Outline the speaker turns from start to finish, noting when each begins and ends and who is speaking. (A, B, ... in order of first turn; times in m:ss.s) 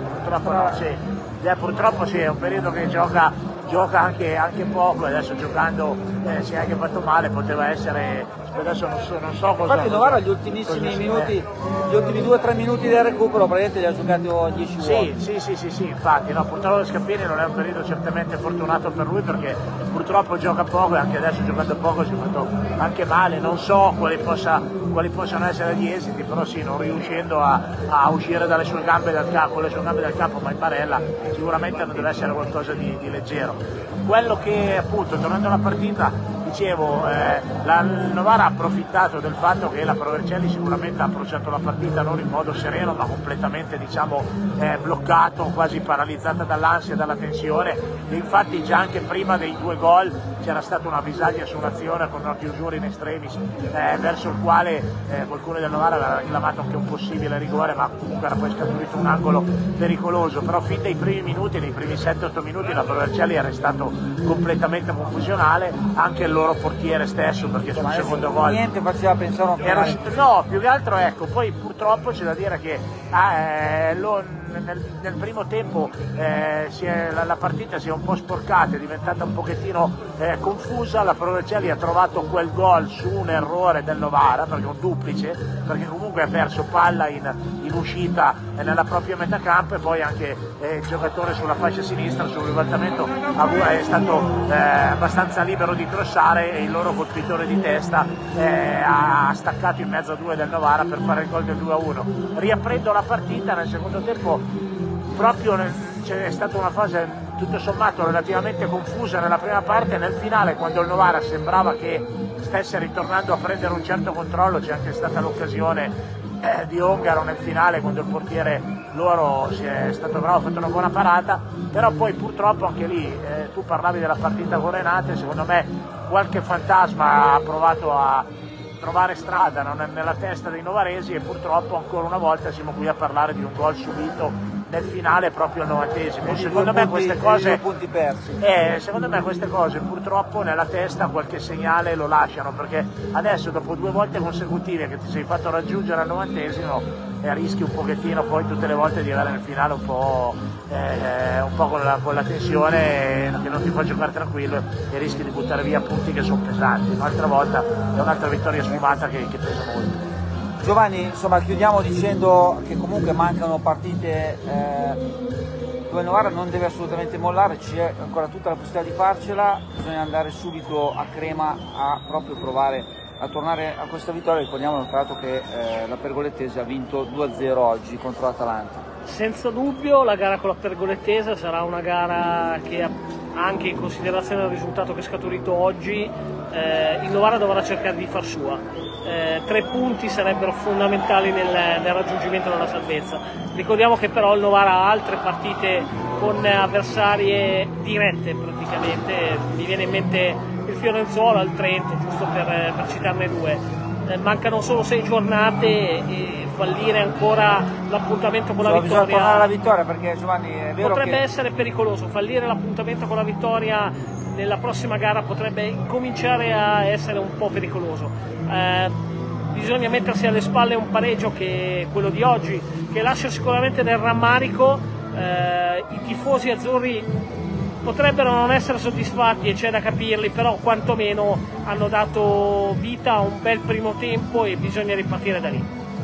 0:00.2-0:11.3 A
0:00.4-0:00.8 B
0:09.6-0:15.1 B
0:14.8-1:08.6 A
1:07.7-1:10.0 B
1:09.6-1:44.4 A
1:45.1-2:08.3 A
2:08.8-2:17.6 A
2:16.2-2:18.4 B
2:18.4-2:40.0 A
2:40.6-2:45.0 B
2:45.9-2:58.8 B
2:59.0-3:29.5 C
3:28.6-3:31.2 B
3:30.8-3:38.9 C
3:39.5-3:47.1 C
3:47.8-3:55.7 C